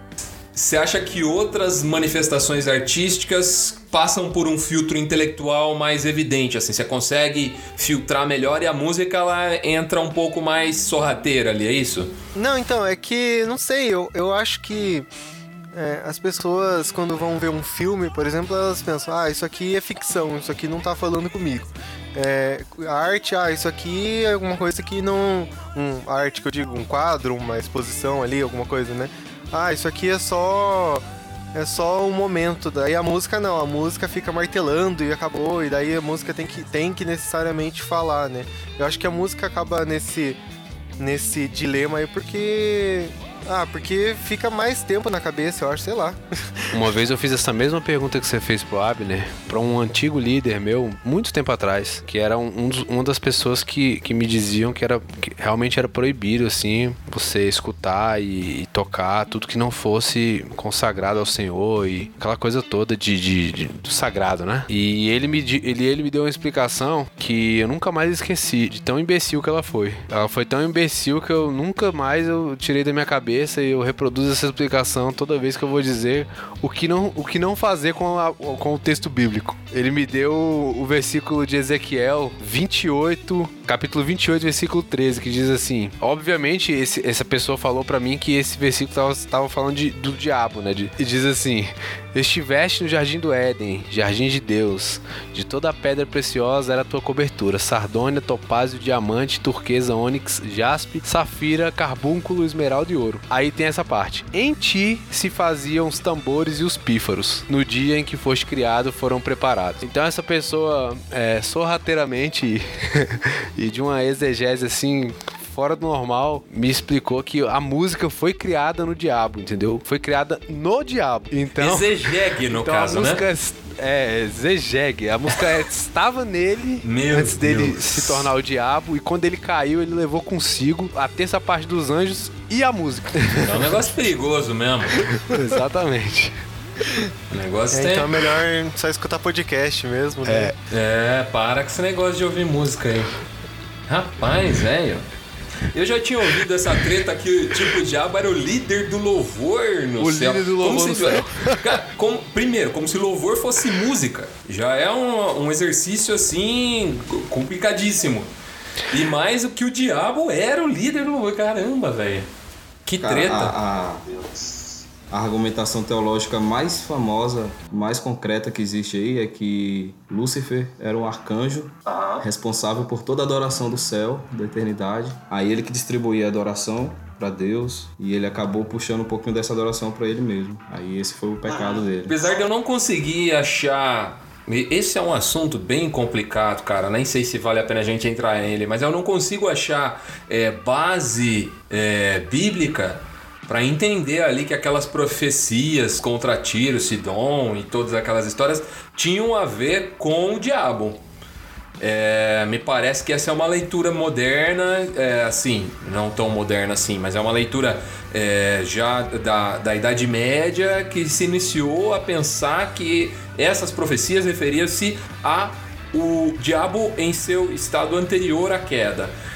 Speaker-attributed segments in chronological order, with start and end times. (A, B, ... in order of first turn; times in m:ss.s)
0:00.6-0:12.1 A
0:12.4-0:15.1 B
0:15.7-0:40.4 B
0:41.0-0:46.2 B
0:46.7-2:13.6 C
2:01.6-2:03.2 A
2:06.8-2:08.2 A
2:13.4-2:15.0 A
2:15.1-2:16.4 C
2:17.3-2:18.2 A
2:17.7-2:20.6 B
2:20.2-2:20.5 C
2:20.7-2:23.1 A
2:23.9-2:25.0 A
2:25.7-2:38.3 A
2:30.0-2:31.3 C
2:38.9-2:42.3 A
2:42.9-2:43.6 A
2:43.0-2:44.1 D
2:45.1-3:02.1 D
3:02.1-3:21.0 A
3:21.8-3:39.1 A